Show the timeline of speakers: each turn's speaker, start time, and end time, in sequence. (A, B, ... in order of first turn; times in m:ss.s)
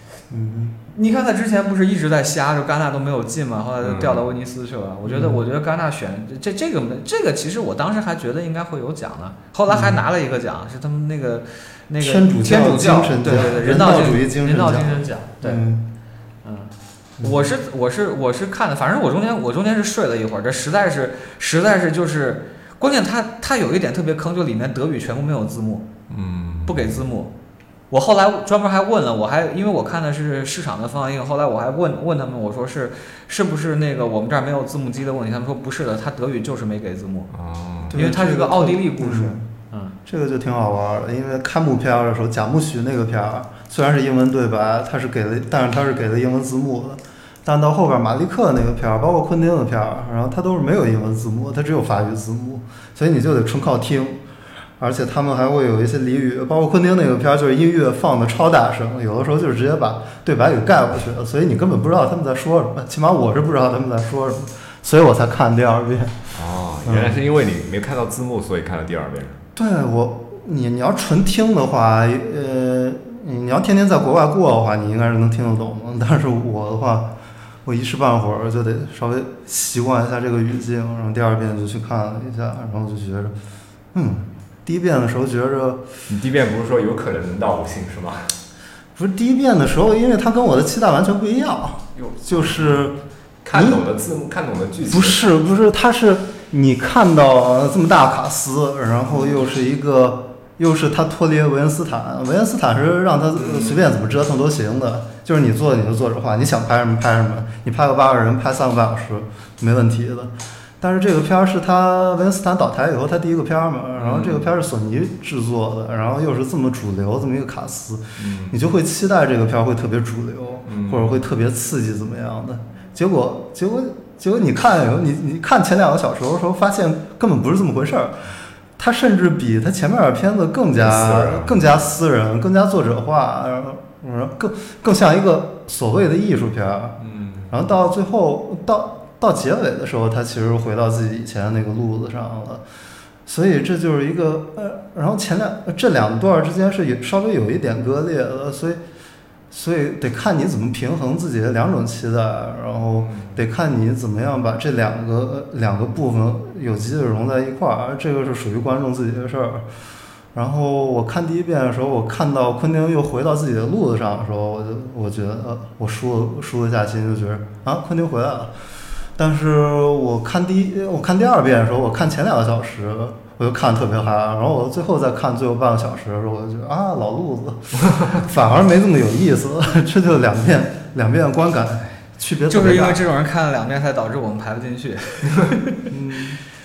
0:00.3-0:00.8 A
0:00.9-0:15.6 B
0:03.8-0:04.3 C
0:05.0-0:05.4 A
0:09.7-0:10.0 A
0:12.0-0:15.8 A
0:16.4-0:25.9 B
0:17.2-0:17.5 A
0:26.1-0:27.0 C
0:26.6-0:27.3 B
0:27.9-0:37.3 B
0:37.3-0:38.0 C
0:37.9-0:39.5 A
0:37.9-0:40.0 B
0:40.0-0:54.2 A
0:54.8-1:06.2 A
1:06.3-1:09.4 C
1:06.8-1:07.2 A
1:09.6-1:17.1 A
1:17.6-1:23.3 A
1:23.9-1:25.8 A
1:26.1-1:28.3 C
1:29.0-1:33.0 A
1:32.0-1:32.9 C
1:33.4-1:35.3 C
1:33.5-1:33.9 A
1:34.9-2:08.2 A
1:39.1-1:39.4 C
1:43.4-1:43.9 C
1:54.0-1:54.5 C
1:58.2-1:58.6 C
2:00.6-2:01.2 C
2:08.8-2:17.0 A
2:10.8-2:11.8 C
2:17.0-2:17.5 C
2:17.5-2:22.6 A
2:23.2-2:28.8 A
2:29.5-2:39.6 A
2:33.0-2:33.4 C
2:40.3-2:48.5 A
2:49.2-3:03.0 A
3:02.5-3:05.9 B
3:05.9-3:06.4 A